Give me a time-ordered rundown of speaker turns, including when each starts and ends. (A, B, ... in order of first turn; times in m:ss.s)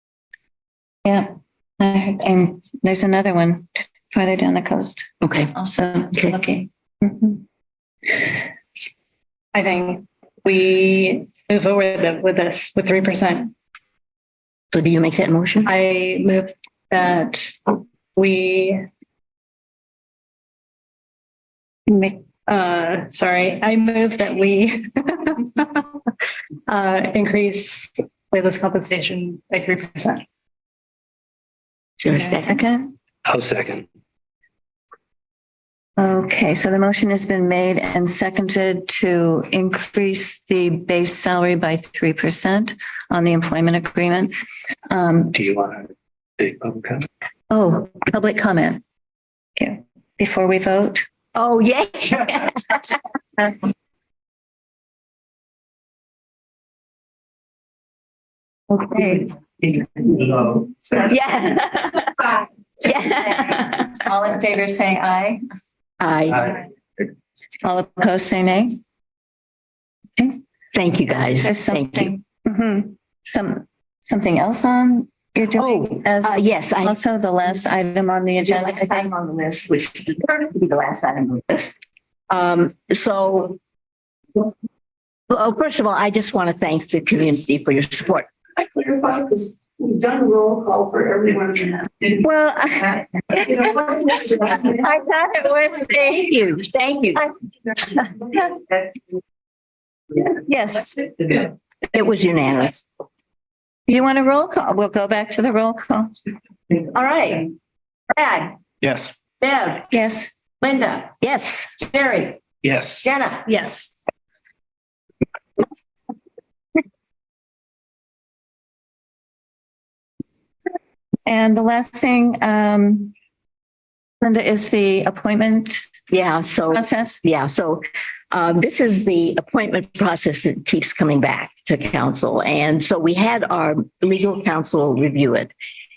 0:01.0-0:07.4 A
0:05.2-0:05.5 B
0:06.1-0:06.4 B
0:09.5-0:13.5 C
0:14.7-0:15.7 B
0:15.6-0:18.8 C
0:21.9-0:22.2 A
0:22.5-0:25.9 C
0:26.7-0:30.2 C
0:32.0-0:32.6 B
0:32.1-0:32.9 A
0:33.2-0:33.8 D
0:36.0-0:44.3 A
0:44.9-0:45.3 A
0:45.3-0:45.9 D
0:46.4-0:47.0 D
0:47.5-0:48.8 A
0:49.6-0:51.0 A
0:51.3-0:52.9 B
0:58.7-0:59.3 A
1:00.9-1:02.2 B
1:02.8-1:03.8 B
1:02.8-1:05.4 A
1:06.0-1:06.6 B
1:07.6-1:08.8 A
1:10.7-1:12.2 B
1:11.4-1:19.1 A
1:15.6-1:17.0 B
1:18.4-1:21.7 B
1:22.3-1:23.6 B
1:25.3-1:28.3 B
1:30.0-1:31.2 E
1:32.2-1:36.3 A
1:36.0-1:37.3 B
1:38.0-1:38.5 A
1:40.4-1:41.0 A
1:41.9-1:42.8 B
1:43.9-1:46.1 A
1:46.9-1:47.4 E
1:48.1-1:48.5 E
1:48.8-1:49.1 D
1:49.4-1:49.8 E
1:49.9-1:50.3 A
1:50.6-1:51.0 E
1:51.2-1:51.7 B
1:51.9-1:52.3 E
1:52.6-1:53.1 D
1:53.0-1:53.4 E
1:53.4-1:53.9 C
2:01.2-2:03.1 A
2:04.2-2:05.8 A
2:06.1-2:15.5 B
2:06.7-2:07.2 A